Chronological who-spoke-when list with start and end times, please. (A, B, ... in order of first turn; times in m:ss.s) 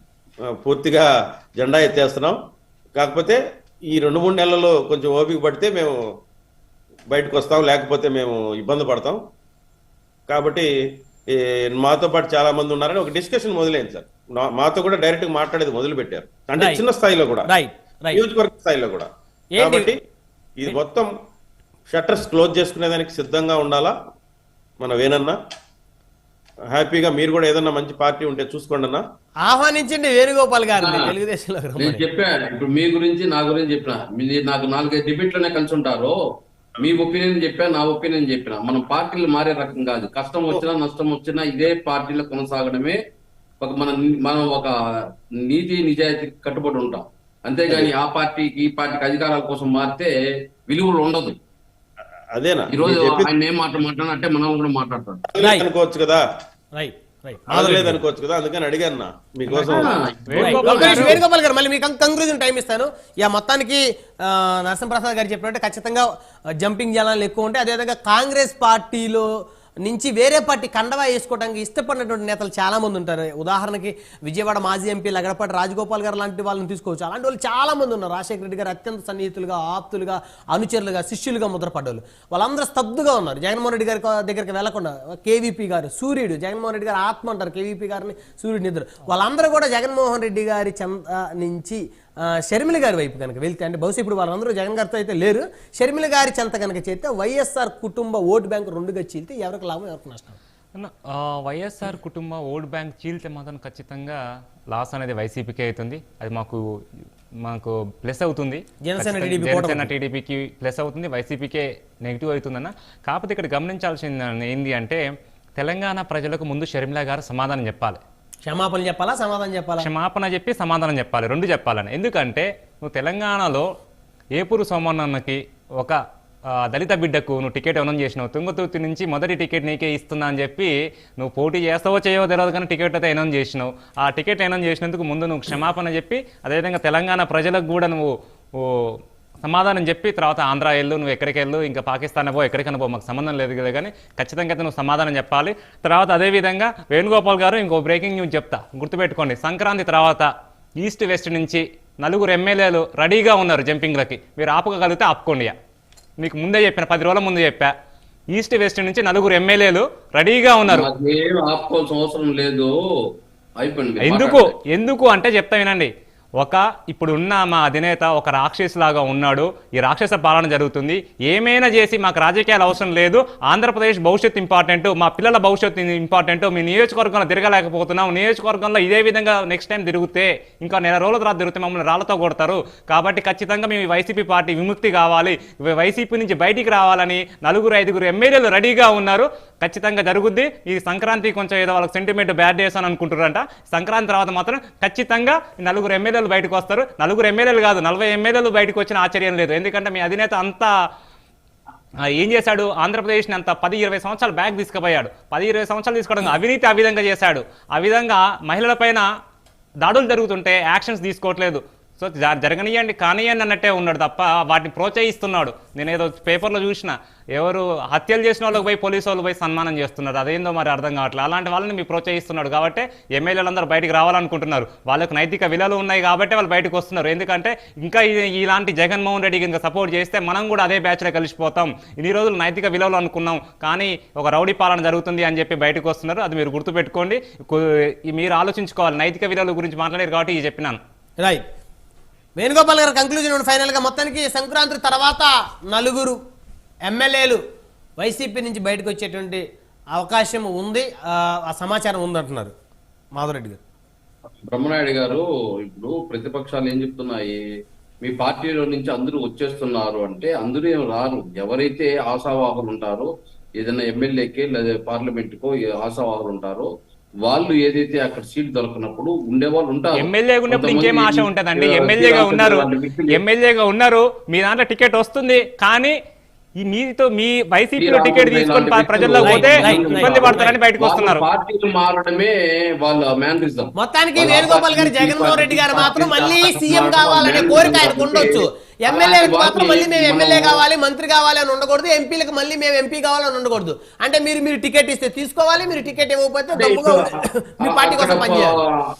0:00.5-0:02.4 A
0:03.0-0:06.0 A
0:07.1-0:09.2 A
0:10.3-0:10.7 A
0:11.3-0:17.5 A
0:16.6-0:16.8 B
0:17.4-0:18.2 B
0:18.1-0:19.1 A
0:19.6-0:19.9 B
0:19.6-0:20.0 A
0:20.6-0:21.1 A
0:21.9-0:24.0 A
0:24.8-0:25.4 A
0:26.7-0:29.0 A
0:29.5-0:32.0 B
0:30.8-0:31.1 C
0:31.8-0:36.2 C
0:36.8-0:43.0 C
0:43.6-0:44.7 C
0:45.4-0:50.1 C
0:50.7-0:51.4 C
0:52.3-0:53.3 A
0:52.7-0:55.2 C
0:55.3-0:56.2 A
0:55.4-0:55.7 B
0:56.8-0:58.0 B
0:57.5-0:59.9 A
0:59.5-1:01.2 D
0:59.6-1:01.1 C
1:00.4-1:06.1 B
1:06.6-1:09.3 B
1:09.8-1:31.8 B
1:32.3-1:40.4 B
1:40.8-1:44.2 D
1:44.7-1:46.6 D
1:47.4-1:55.0 D
1:48.8-1:49.9 B
1:55.6-1:58.0 D
1:58.5-1:59.9 B
1:59.8-2:03.7 D
2:04.4-2:06.0 D
2:06.7-2:35.5 D
2:36.2-2:37.7 D
2:38.3-2:40.9 D
2:40.7-2:42.7 C
2:43.6-2:44.5 C
2:44.0-3:20.7 D
3:22.1-3:29.0 D
3:29.8-4:00.8 D
4:02.4-4:06.2 B
4:06.9-4:07.4 B
4:08.0-4:09.4 B
4:10.0-4:12.5 B
4:13.2-4:13.6 B
4:14.5-4:17.4 C
4:18.0-4:26.7 C
4:27.2-4:33.2 C
4:30.0-4:35.9 D
4:36.6-4:41.2 D
4:37.8-4:50.6 C
4:39.2-4:40.4 B
4:43.8-4:58.6 B
4:56.5-4:58.6 C